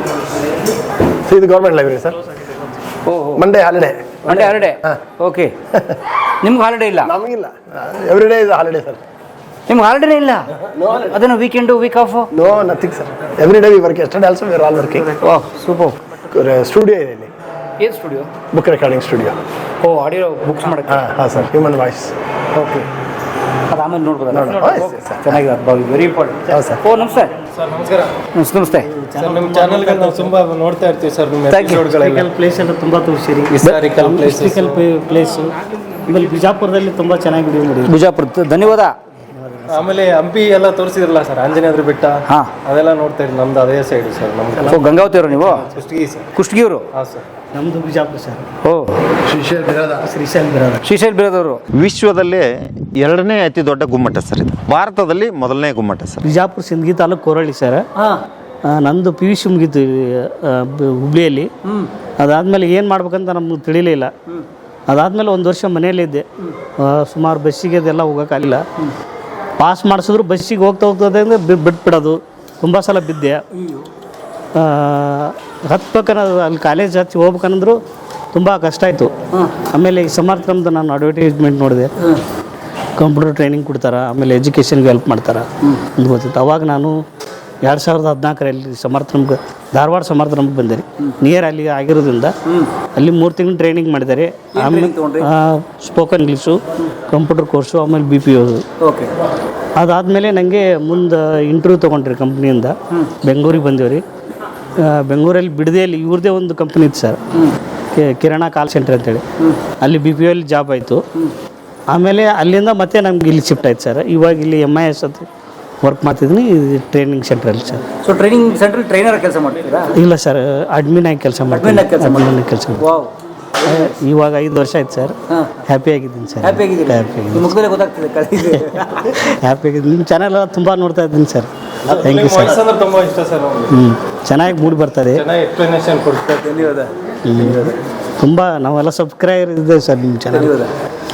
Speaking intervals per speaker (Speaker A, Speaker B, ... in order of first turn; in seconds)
Speaker A: 1.2-2.2, 3.4-5.0, 7.0-9.0, 10.7-11.2, 12.3-15.1, 16.3-17.3, 18.5-19.4, 20.9-22.1, 24.3-25.4, 26.5-26.8
Speaker B: 3.1-3.4, 4.2-5.5, 6.4-7.1, 9.7-10.5, 11.1-12.3, 15.2-16.0, 17.8-18.3, 19.8-21.1, 22.6-22.9, 23.7-27.3, 28.3-28.9, 31.5-31.8, 37.9-39.0, 44.7-45.6, 46.3-46.8, 48.6-49.0, 50.8-51.6, 58.0-58.2, 61.6-61.9, 94.5-95.3, 98.8-99.1, 118.0-119.9, 121.5-123.1, 126.4-129.3, 140.3-140.7
Speaker C: 27.5-28.1, 29.2-32.3, 33.5-34.8, 39.7-44.9, 45.5-46.3, 46.9-47.2, 131.8-133.7, 135.1-136.9
Speaker D: 28.9-30.3, 31.6-35.5, 36.1-37.9, 39.4-39.8, 47.5-48.5, 50.1-50.8, 56.2-57.9, 58.6-61.5, 62.2-64.1, 64.9-66.2, 66.8-68.7, 69.6-73.4, 74.5-77.8, 78.3-79.1, 79.7-81.9, 83.0-87.0, 87.6-92.3, 93.0-98.6, 99.8-104.0, 104.8-107.2, 107.9-109.2, 109.8-111.0, 111.9-115.3, 115.8-117.8, 119.9-122.8, 123.6-125.2, 125.7-127.5, 129.1-132.6, 133.7-135.2, 137.2-140.6
Speaker E: 51.7-56.2